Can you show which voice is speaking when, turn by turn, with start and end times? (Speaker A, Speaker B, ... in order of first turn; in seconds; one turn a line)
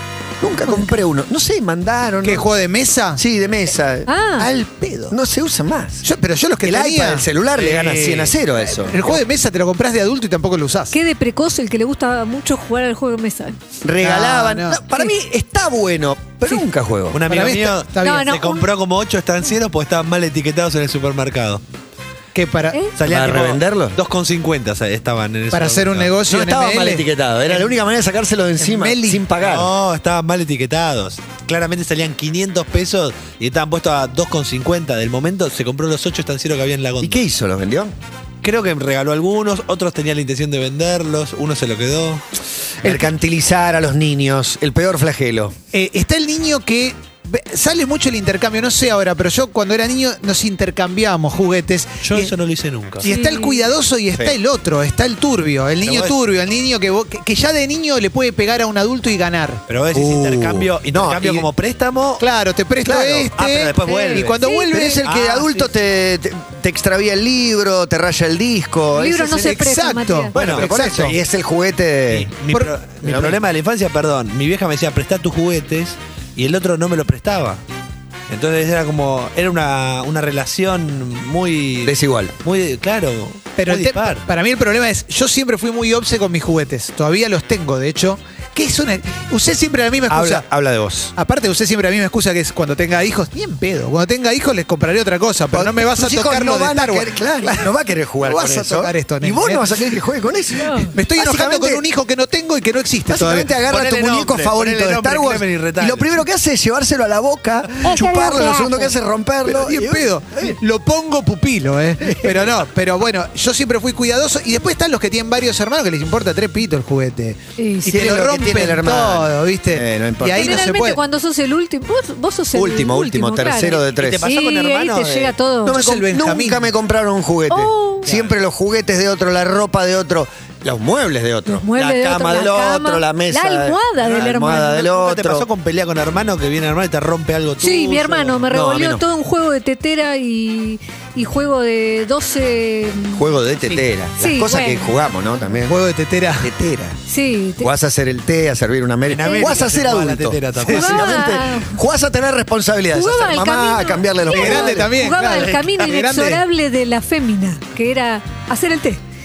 Speaker A: 0.4-2.5
Speaker B: 2.2-3.2
Speaker A: 3.2-6.1
Speaker C: 4.1-4.5
Speaker B: 6.0-7.2
Speaker A: 6.6-9.1
Speaker D: 7.5-8.3
Speaker B: 8.9-10.9
Speaker C: 10.9-13.6
Speaker A: 13.8-17.2
Speaker B: 14.0-14.8
Speaker D: 17.1-21.6
Speaker B: 17.3-18.3
Speaker C: 18.0-18.6
Speaker B: 22.3-22.8
Speaker D: 23.0-26.1
Speaker A: 23.0-24.0
Speaker B: 25.5-27.1
Speaker A: 26.3-29.7
Speaker B: 28.6-29.2
Speaker D: 29.4-37.2
Speaker A: 37.0-37.9
Speaker D: 38.4-42.2
Speaker A: 42.8-45.6
Speaker B: 45.7-52.3
Speaker D: 52.0-53.1
Speaker B: 53.0-60.6
Speaker C: 53.1-53.6
Speaker A: 54.1-54.4
Speaker D: 55.8-56.3
Speaker D: 59.7-62.2
Speaker A: 60.9-61.5
Speaker B: 62.2-65.0
Speaker A: 62.8-63.4
Speaker D: 63.4-64.4
Speaker C: 63.8-64.3
Speaker A: 64.4-69.7
Speaker D: 65.0-65.7
Speaker C: 68.9-70.3
Speaker B: 69.3-71.2
Speaker A: 70.3-72.3
Speaker D: 70.3-70.7
Speaker D: 72.1-77.6
Speaker A: 73.0-73.4
Speaker D: 78.3-84.2
Speaker A: 81.8-82.3
Speaker B: 83.6-90.4
Speaker A: 90.1-91.1
Speaker B: 91.2-97.7
Speaker A: 95.5-101.8
Speaker B: 98.2-100.0
Speaker C: 100.6-100.9
Speaker B: 100.9-103.5
Speaker A: 103.1-110.6
Speaker D: 103.6-106.2
Speaker C: 107.8-108.9
Speaker B: 109.4-121.0
Speaker A: 112.0-112.5
Speaker C: 117.6-117.9
Speaker A: 117.9-120.8
Speaker C: 120.3-125.8
Speaker A: 122.5-124.2
Speaker D: 123.9-125.3
Speaker A: 125.6-135.5
Speaker B: 125.7-126.7
Speaker C: 127.5-128.1
Speaker D: 128.1-128.3
Speaker C: 131.5-134.9
Speaker D: 134.8-138.5
Speaker C: 137.6-145.0
Speaker A: 138.5-139.0
Speaker A: 143.1-145.8
Speaker B: 145.6-146.5
Speaker A: 146.3-147.0
Speaker C: 147.1-147.7
Speaker A: 147.6-155.0
Speaker D: 149.1-151.1
Speaker C: 150.7-151.8
Speaker C: 152.9-159.0
Speaker B: 154.3-156.4